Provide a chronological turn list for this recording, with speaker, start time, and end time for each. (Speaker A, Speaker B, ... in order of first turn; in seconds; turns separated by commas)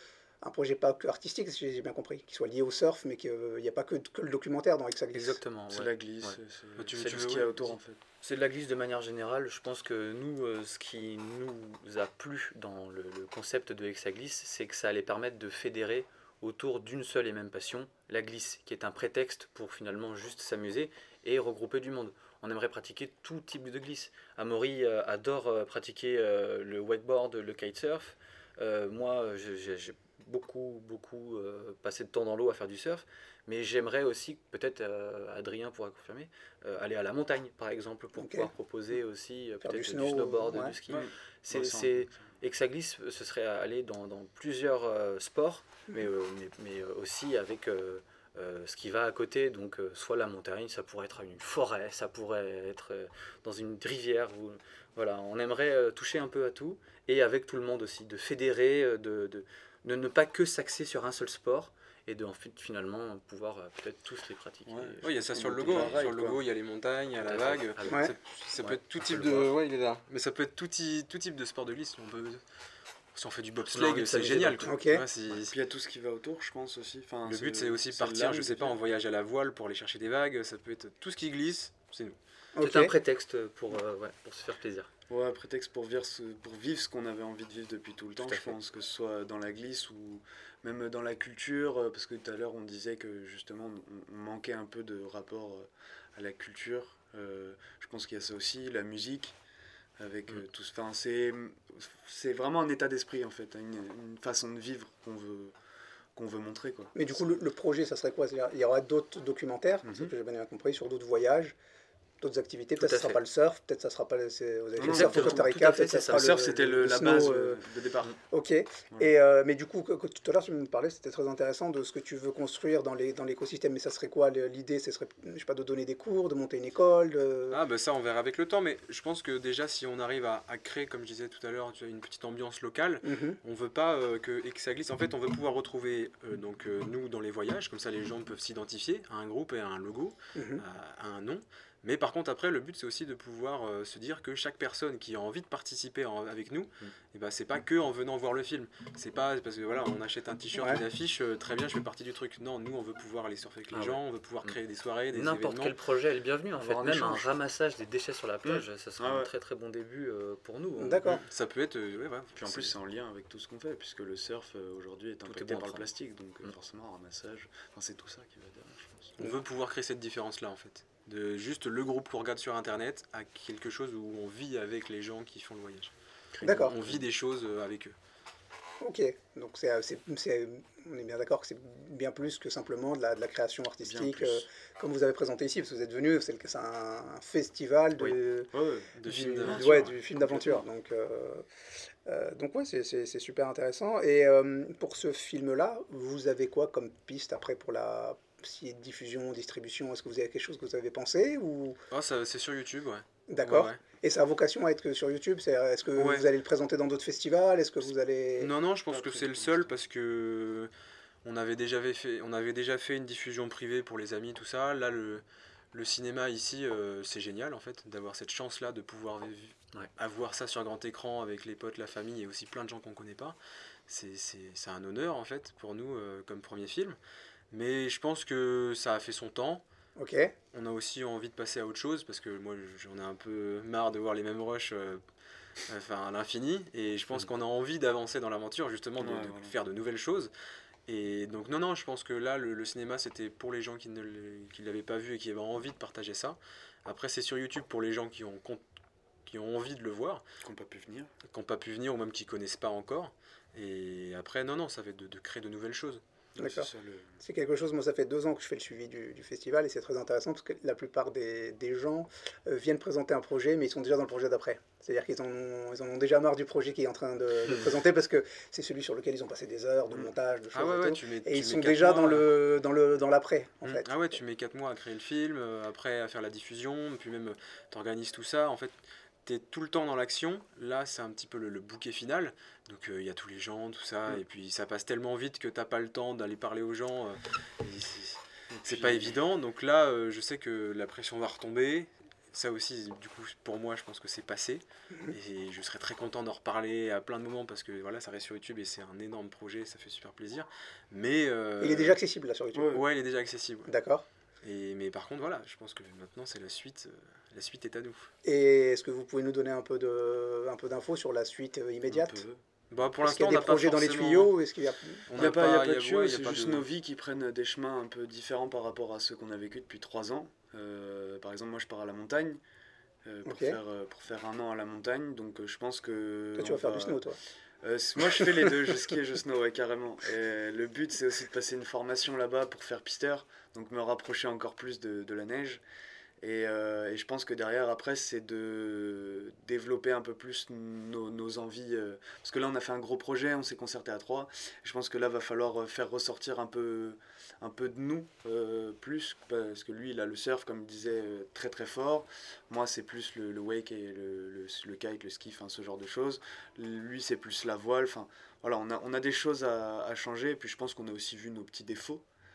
Speaker A: 0.4-5.4, Speaker B: 5.1-6.4, Speaker C: 5.7-8.0, Speaker D: 6.8-7.5, Speaker B: 7.0-66.0, Speaker A: 38.2-38.5, Speaker A: 39.6-40.8, Speaker C: 40.9-42.2, Speaker C: 64.7-66.4, Speaker D: 65.0-72.4, Speaker B: 67.2-68.1, Speaker A: 67.9-68.1, Speaker B: 68.6-69.5, Speaker D: 73.1-75.5, Speaker B: 73.7-74.7, Speaker A: 74.6-75.0, Speaker C: 75.3-78.7, Speaker D: 77.2-82.2, Speaker A: 82.5-82.9, Speaker B: 82.6-84.9, Speaker C: 85.1-99.4, Speaker B: 88.2-88.5, Speaker C: 100.0-105.5, Speaker C: 106.1-107.3, Speaker A: 106.9-111.5, Speaker C: 109.8-110.1, Speaker A: 112.2-117.6, Speaker B: 112.8-113.2, Speaker C: 114.8-115.4, Speaker B: 114.8-116.4, Speaker C: 116.1-118.2, Speaker A: 118.3-127.6, Speaker D: 127.5-155.7, Speaker A: 133.0-133.4, Speaker A: 140.3-140.6, Speaker A: 150.5-150.8, Speaker B: 153.7-154.6, Speaker B: 155.1-161.1, Speaker C: 156.6-157.3, Speaker C: 158.4-159.3, Speaker A: 160.8-161.2, Speaker D: 161.1-162.8, Speaker C: 162.3-169.2, Speaker B: 165.2-165.9, Speaker D: 169.2-175.9, Speaker C: 176.3-177.0, Speaker A: 176.4-176.8, Speaker D: 176.4-177.9, Speaker A: 178.8-188.5, Speaker C: 183.8-184.4, Speaker C: 188.5-190.6, Speaker D: 189.0-189.9, Speaker A: 189.1-191.4, Speaker A: 192.0-201.8, Speaker D: 201.9-203.8, Speaker A: 203.3-208.5, Speaker D: 205.9-206.3, Speaker D: 208.4-210.7, Speaker C: 208.9-209.7, Speaker D: 211.2-223.3, Speaker D: 223.9-227.0, Speaker D: 227.5-229.6, Speaker A: 229.9-230.3, Speaker D: 230.5-235.0, Speaker D: 235.7-240.3, Speaker C: 239.0-239.5, Speaker D: 240.9-248.6, Speaker D: 249.2-250.2, Speaker C: 250.4-251.1, Speaker D: 251.3-256.0, Speaker C: 256.4-257.1, Speaker A: 256.4-273.9, Speaker D: 270.5-272.3, Speaker D: 273.6-302.0, Speaker C: 288.5-289.1, Speaker A: 301.6-302.8, Speaker C: 302.5-302.8, Speaker D: 302.7-303.7, Speaker A: 303.7-304.1, Speaker D: 304.4-308.1, Speaker A: 308.2-312.2, Speaker C: 311.9-312.4, Speaker D: 312.7-314.3, Speaker A: 313.0-315.1, Speaker D: 315.1-316.7, Speaker C: 315.1-322.4, Speaker C: 323.0-327.0, Speaker A: 323.2-323.6, Speaker A: 326.4-327.2, Speaker C: 327.6-335.6, Speaker A: 328.0-328.7, Speaker C: 336.2-362.0